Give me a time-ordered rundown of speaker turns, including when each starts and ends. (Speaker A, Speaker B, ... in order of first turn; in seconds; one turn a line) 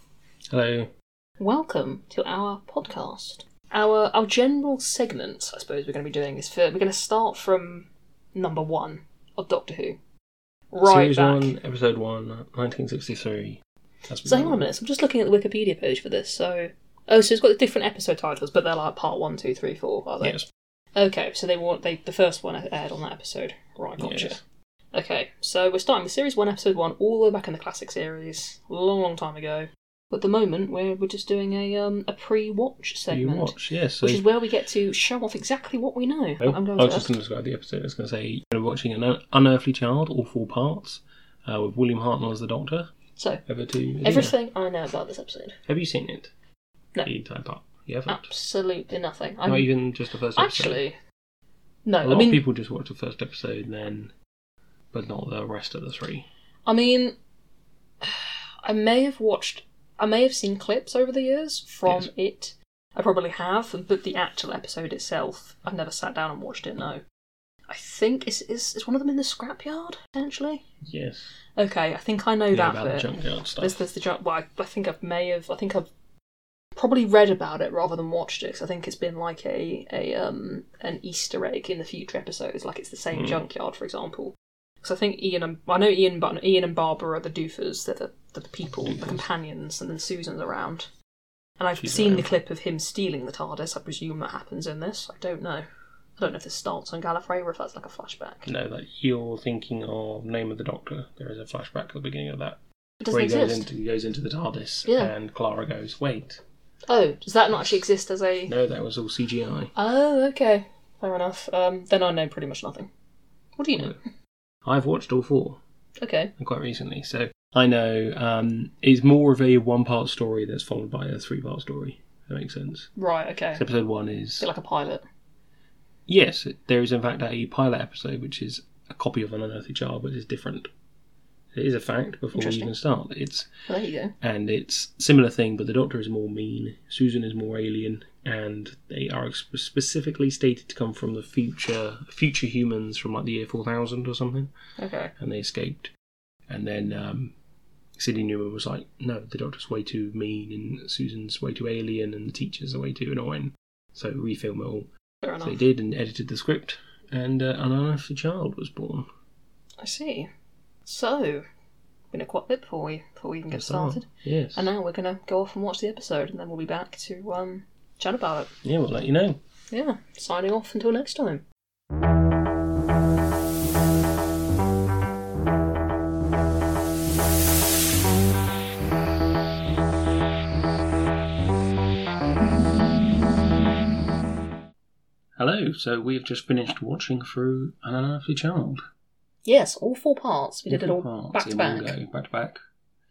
Speaker A: 0.5-0.9
Speaker B: 1.4-10.0
Speaker B: 10.7-11.5
Speaker A: 10.8-14.6
Speaker B: 14.2-20.4
Speaker B: 20.9-24.4
Speaker A: 24.0-24.4
Speaker B: 24.9-37.1
Speaker A: 33.1-34.2
Speaker A: 36.4-42.9
Speaker B: 43.2-43.4
Speaker A: 43.5-44.4
Speaker B: 44.0-45.6
Speaker A: 45.7-46.3
Speaker A: 47.0-48.3
Speaker B: 48.1-49.7
Speaker A: 49.5-50.8
Speaker B: 50.4-51.0
Speaker B: 51.9-52.4
Speaker A: 52.0-54.1
Speaker A: 54.9-56.3
Speaker B: 56.7-57.2
Speaker B: 58.0-67.0
Speaker A: 61.9-62.1
Speaker B: 67.7-70.6
Speaker A: 70.9-71.3
Speaker B: 71.6-75.9
Speaker A: 72.5-73.8
Speaker B: 76.8-90.9
Speaker A: 83.1-83.4
Speaker A: 88.8-89.2
Speaker B: 91.6-95.7
Speaker A: 91.8-92.3
Speaker B: 96.2-98.5
Speaker A: 98.5-106.4
Speaker B: 103.0-103.7
Speaker B: 104.9-105.1
Speaker B: 106.9-108.5
Speaker A: 108.5-109.7
Speaker B: 109.8-112.9
Speaker B: 113.6-114.0
Speaker A: 114.7-115.6
Speaker B: 116.0-116.3
Speaker A: 116.4-122.9
Speaker B: 123.0-123.6
Speaker A: 123.5-124.5
Speaker B: 124.4-125.0
Speaker A: 126.1-130.7
Speaker A: 131.5-133.5
Speaker B: 132.3-132.7
Speaker B: 133.7-134.1
Speaker A: 134.2-144.5
Speaker B: 144.8-145.1
Speaker A: 145.2-145.9
Speaker A: 146.5-147.3
Speaker A: 148.0-154.9
Speaker B: 155.2-155.5
Speaker A: 155.4-159.1
Speaker B: 159.8-160.3
Speaker B: 160.9-161.5
Speaker B: 162.1-168.5
Speaker A: 163.5-164.7
Speaker A: 168.6-169.4
Speaker B: 169.7-171.4
Speaker A: 185.4-188.8
Speaker B: 189.4-191.9
Speaker A: 190.7-192.6